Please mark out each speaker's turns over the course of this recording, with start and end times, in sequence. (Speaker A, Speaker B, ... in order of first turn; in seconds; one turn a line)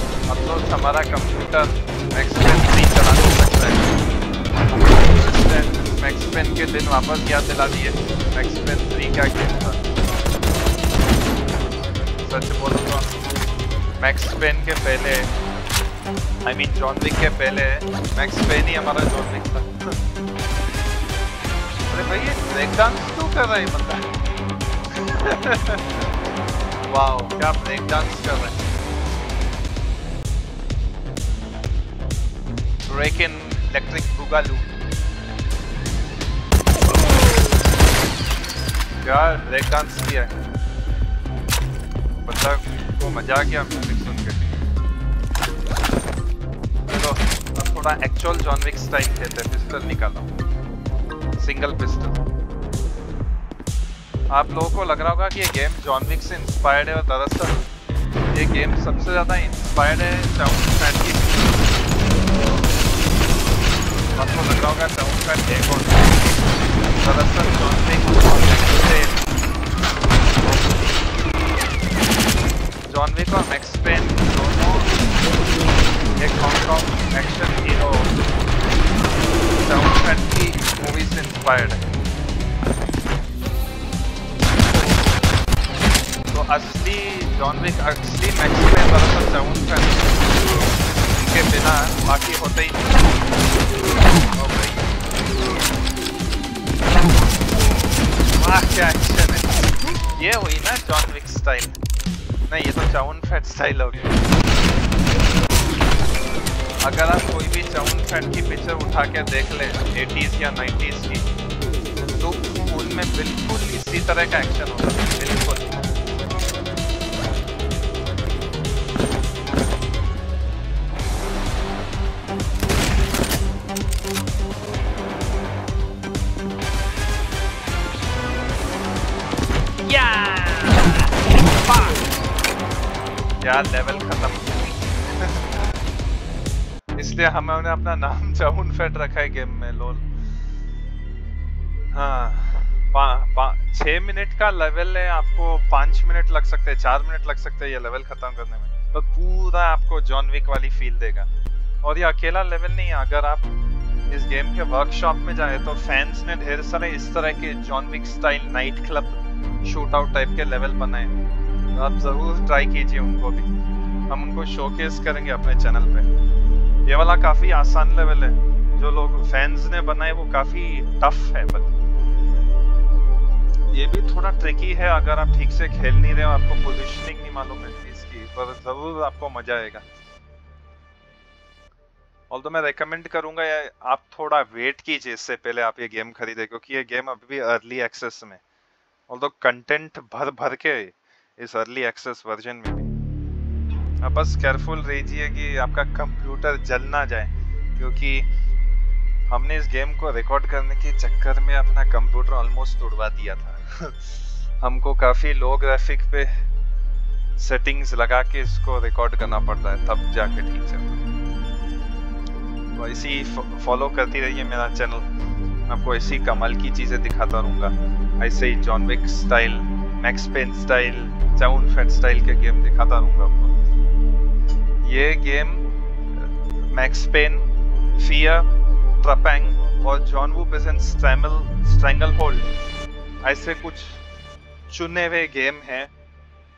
Speaker A: 0.3-4.0
Speaker A: 5.0-9.8
Speaker A: 12.2-13.1
Speaker A: 14.0-15.3
Speaker A: 16.4-19.9
Speaker A: 21.9-24.1
Speaker A: 24.9-26.1
Speaker A: 26.9-28.6
Speaker A: 32.9-34.7
Speaker A: 39.0-40.3
Speaker A: 42.1-44.5
Speaker A: 46.9-50.3
Speaker A: 51.4-52.2
Speaker A: 54.3-57.7
Speaker A: 58.3-61.4
Speaker A: 64.1-66.3
Speaker A: 67.0-69.2
Speaker A: 70.3-71.1
Speaker A: 72.9-74.9
Speaker A: 76.2-78.2
Speaker A: 79.5-81.9
Speaker A: 86.3-90.2
Speaker A: 91.1-92.9
Speaker A: 94.4-94.9
Speaker A: 98.4-101.8
Speaker A: 102.5-104.2
Speaker A: 106.8-111.3
Speaker A: 112.2-115.8
Speaker A: 129.8-132.1
Speaker A: 133.4-135.7
Speaker A: 136.9-140.1
Speaker A: 141.9-151.3
Speaker A: 151.8-153.5
Speaker A: 154.1-161.1
Speaker A: 161.7-163.5
Speaker A: 164.1-166.1
Speaker A: 166.8-171.8
Speaker A: 173.7-179.8
Speaker A: 182.3-188.4
Speaker A: 189.1-192.9
Speaker A: 194.0-198.3
Speaker A: 199.3-206.3
Speaker A: 207.4-211.0
Speaker A: 212.7-215.1
Speaker A: 215.7-223.5
Speaker A: 224.8-225.7
Speaker A: 226.2-228.5
Speaker A: 229.0-232.5
Speaker A: 233.2-234.0
Speaker A: 234.7-235.9